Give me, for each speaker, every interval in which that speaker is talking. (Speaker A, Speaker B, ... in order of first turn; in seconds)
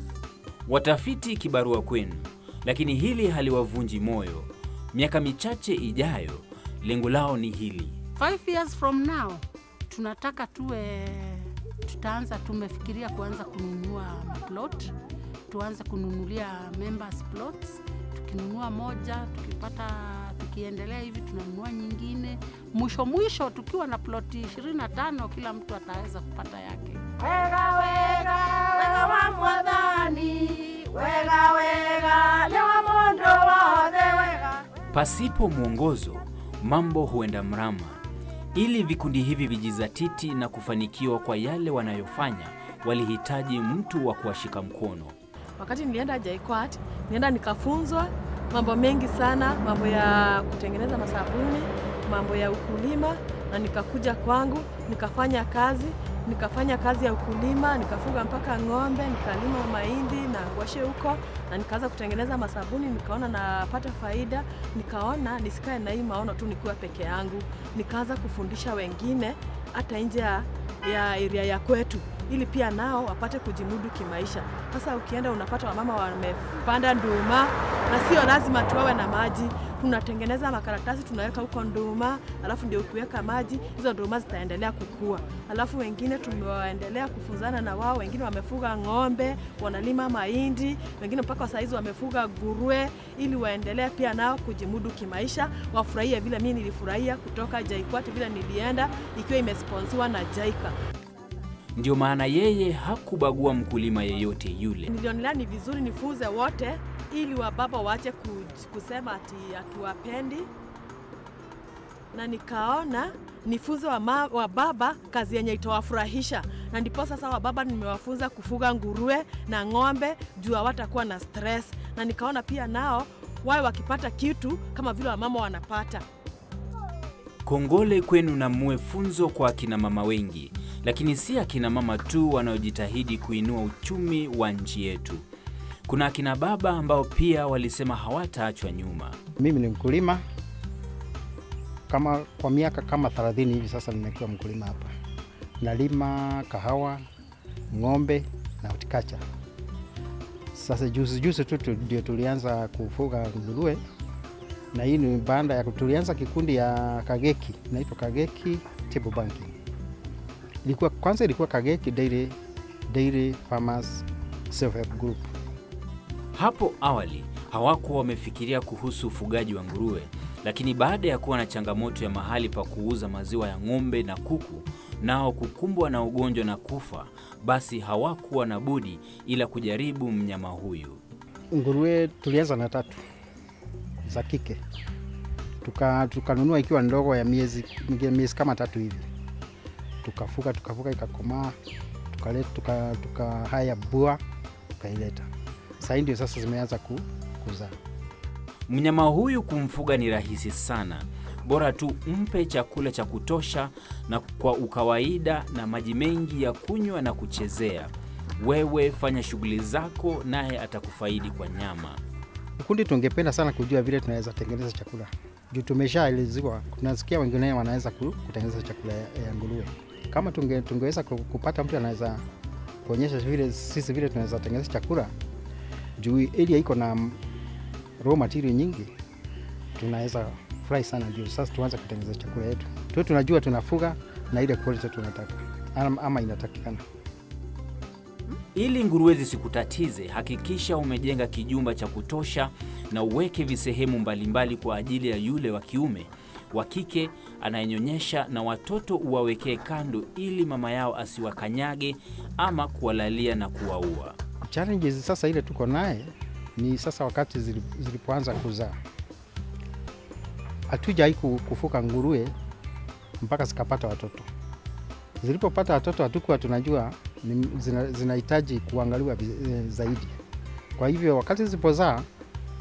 Speaker A: 0.7-8.0, 34.9-38.0, 38.5-45.1, 101.8-104.9, 127.5-135.2, 135.9-139.2, 166.3-181.0, 198.7-212.0, 238.6-254.2
Speaker B: 8.2-14.9, 15.5-34.5
Speaker C: 45.6-100.7, 104.9-110.5, 112.1-126.0
Speaker D: 139.4-140.2, 141.9-144.9, 145.6-147.0, 147.7-149.2, 150.6-153.8, 154.7-159.6, 160.7-162.3, 162.9-165.3, 181.5-183.0, 184.1-184.6, 185.6-189.1, 190.0-191.6, 192.1-194.2, 194.8-195.3, 195.8-197.8, 212.6-222.2, 222.8-225.1, 226.0-227.2, 228.0-228.9, 229.8-236.8, 254.5-258.8, 260.7-262.3, 263.2-264.3, 265.2-270.2, 270.8-272.1